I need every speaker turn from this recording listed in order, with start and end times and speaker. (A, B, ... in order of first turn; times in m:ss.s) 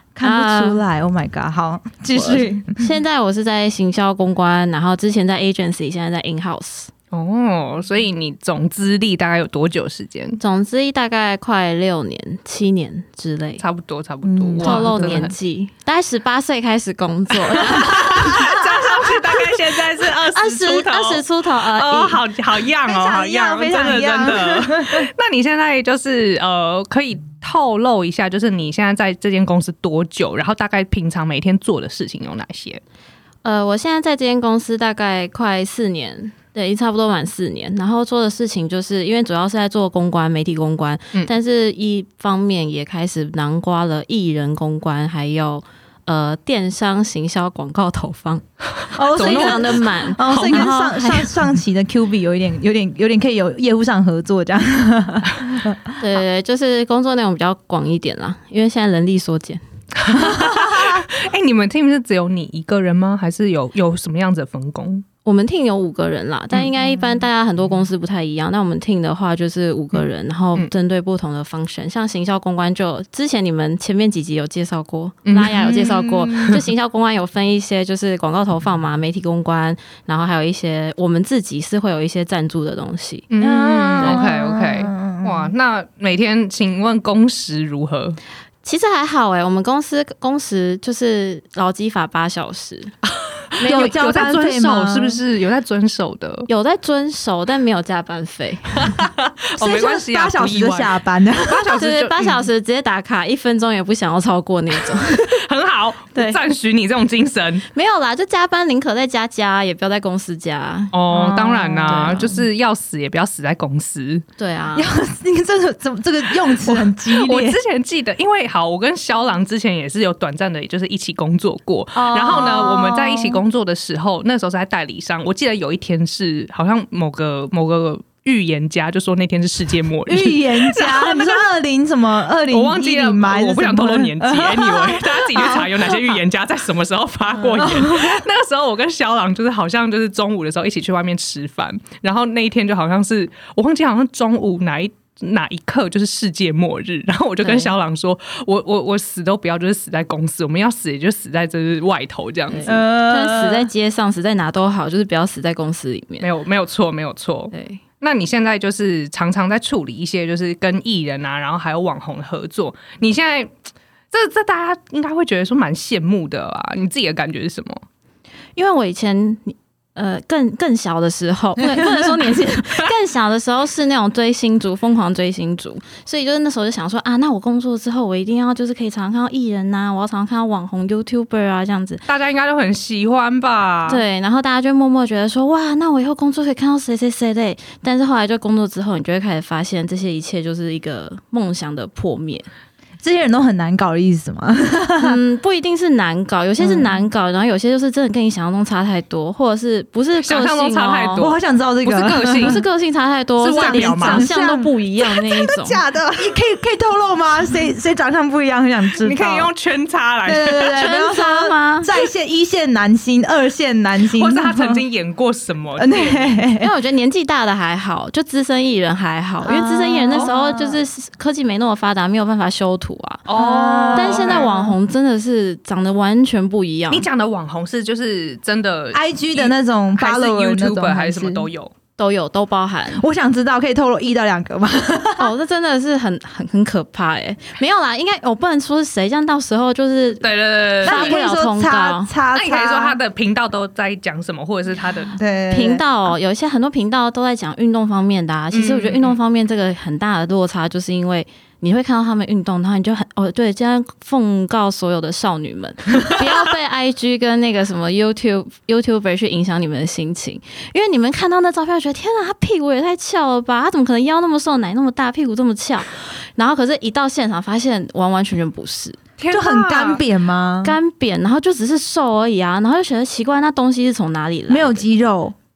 0:00.2-0:02.9 A
0:00.2-0:00.8 B
0:02.1-0:06.9 B
0:07.1-0:10.4 C
0:10.4-0:13.6 B
0:13.6-0:15.3 C
0:14.2-0:15.3 A
0:14.6-0:18.4 B
0:17.6-0:32.8 C
0:17.8-0:18.7 A
0:20.3-0:22.2 B
0:22.8-0:25.1 A
0:33.4-0:48.4 B
0:48.8-0:50.8 C
0:49.0-0:56.0 A
0:49.1-0:51.3 B
0:56.0-0:59.6 B
1:00.0-1:05.0 C
1:00.2-1:01.0 A
1:05.2-1:23.3 B
1:15.3-1:15.8 C
1:15.4-1:16.6 A
1:23.3-1:28.2 C
1:23.4-1:25.5 A
1:28.6-1:32.9 B
1:33.5-1:36.5 C
1:33.6-1:33.9 B
1:33.6-1:35.2 A
1:36.5-1:39.0 B
1:38.8-1:42.4 C
1:39.6-1:41.8 A
1:41.8-1:45.4 B
1:44.8-1:47.7 C
1:46.2-1:46.4 B
1:47.7-1:50.9 B
1:50.9-1:54.2 C
1:51.1-1:52.4 A
1:54.4-1:54.9 B
1:54.8-1:57.6 A
1:56.6-2:11.4 C
2:02.0-2:03.4 A
2:10.1-2:16.2 A
2:12.5-2:32.8 C
2:17.4-2:18.2 A
2:27.4-2:27.7 B
2:32.5-2:36.3 B
2:32.7-2:33.7 A
2:36.2-2:43.6 C
2:37.5-2:37.8 B
2:44.1-2:47.8 C
2:48.6-3:02.0 B
2:51.6-2:52.0 A
3:02.1-3:04.0 C
3:03.9-3:12.5 B
3:13.0-3:15.2 A
3:15.0-3:21.3 B
3:16.6-3:16.9 A
3:20.2-3:22.6 C
3:21.2-3:22.6 A
3:22.4-3:25.8 B
3:23.4-3:24.3 C
3:23.6-3:29.5 A
3:29.0-3:30.9 C
3:30.2-3:34.8 A
3:30.8-3:31.9 B
3:34.1-3:36.3 C
3:35.8-3:36.7 A
3:36.6-3:43.2 B
3:39.4-3:40.8 A
3:43.3-3:44.5 C
3:43.3-3:44.7 A
3:43.9-3:47.1 B
3:46.9-3:51.7 C
3:48.9-3:51.5 A
3:52.0-3:53.0 B
3:52.9-3:55.3 A
3:55.2-4:00.3 B
4:00.2-4:01.2 C
4:00.8-4:02.1 B
4:00.8-4:03.0 A
4:02.4-4:05.1 C
4:05.2-4:05.8 A
4:05.5-4:29.0 B
4:08.5-4:09.2 C
4:29.2-4:30.0 C
4:29.3-4:30.8 A
4:30.6-4:34.8 B
4:34.5-4:35.4 A